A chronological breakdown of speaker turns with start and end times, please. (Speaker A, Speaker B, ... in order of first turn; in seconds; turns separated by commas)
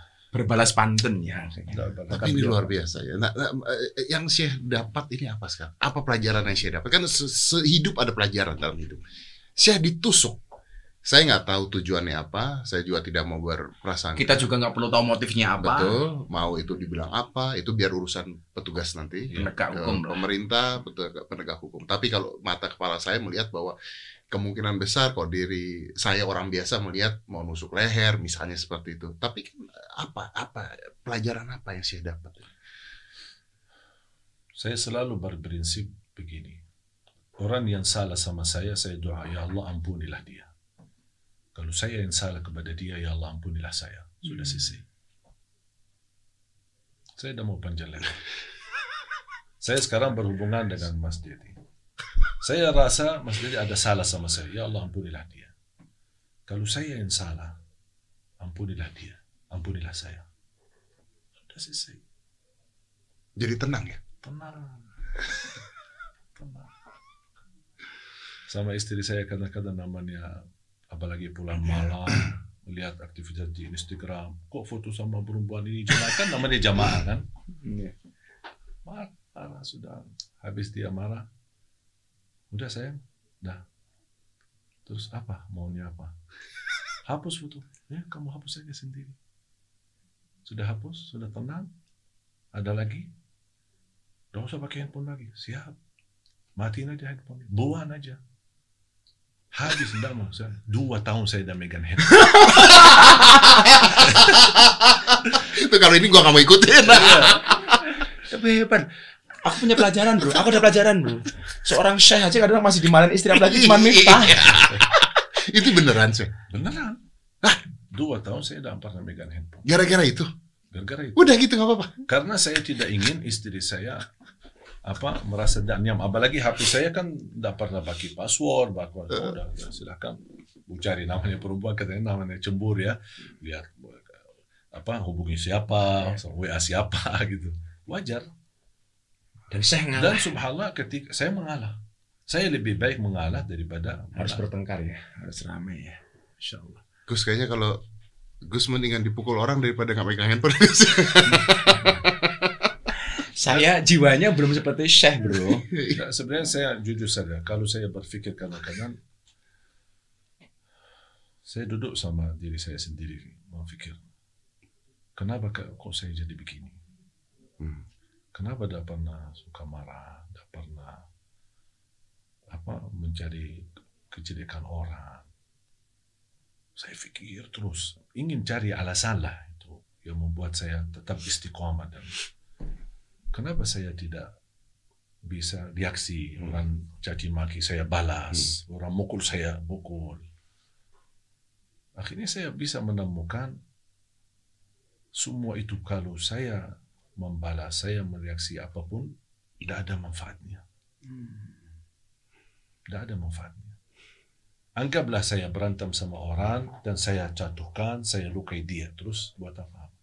Speaker A: 0.3-2.8, Speaker B: 1.7-2.6, Speaker C: 2.1-9.0, Speaker C: 9.6-10.4, Speaker C: 11.1-14.4, Speaker A: 14.2-16.0, Speaker C: 15.6-23.8, Speaker A: 19.3-20.2, Speaker C: 24.3-32.5, Speaker B: 34.6-36.6, Speaker B: 37.4-40.5, Speaker B: 41.5-44.8, Speaker B: 47.2-48.2, Speaker B: 49.6-51.5, Speaker B: 52.4-55.5, Speaker B: 56.5-57.5, Speaker B: 58.4-60.2, Speaker B: 61.4-62.0, Speaker C: 63.4-64.0, Speaker B: 64.2-64.9, Speaker B: 66.4-66.7, Speaker B: 68.5-77.3, Speaker A: 77.6-77.9, Speaker B: 78.9-81.3, Speaker B: 82.5-83.6, Speaker B: 84.9-86.1, Speaker B: 87.1-89.2, Speaker B: 90.5-91.7, Speaker B: 92.5-93.1, Speaker B: 94.3-95.8, Speaker B: 96.6-98.2, Speaker B: 99.5-103.0, Speaker C: 102.6-107.8, Speaker A: 102.6-103.5, Speaker B: 104.0-104.3, Speaker B: 106.9-107.5, Speaker A: 108.2-108.9, Speaker A: 109.4-114.8, Speaker C: 113.3-116.3, Speaker B: 116.5-117.0, Speaker B: 117.9-119.6, Speaker C: 119.7-120.3, Speaker B: 120.7-121.3, Speaker C: 121.2-122.1, Speaker B: 122.1-124.1, Speaker B: 124.9-134.2, Speaker B: 134.7-138.3, Speaker A: 139.5-140.3, Speaker B: 140.0-144.5, Speaker A: 144.2-146.8, Speaker C: 147.1-147.8, Speaker C: 148.4-152.7, Speaker A: 151.3-152.2, Speaker A: 153.3-155.7, Speaker C: 155.7-156.0, Speaker B: 155.9-159.0, Speaker B: 161.5-164.0, Speaker B: 165.2-166.8, Speaker C: 167.6-167.8, Speaker B: 168.3-171.1, Speaker B: 172.5-175.3, Speaker B: 176.8-182.2, Speaker B: 183.3-184.3, Speaker B: 185.2-190.2, Speaker B: 192.0-193.6, Speaker B: 195.2-199.1, Speaker B: 199.6-200.6, Speaker A: 201.1-201.5, Speaker B: 202.9-203.8, Speaker B: 204.8-209.9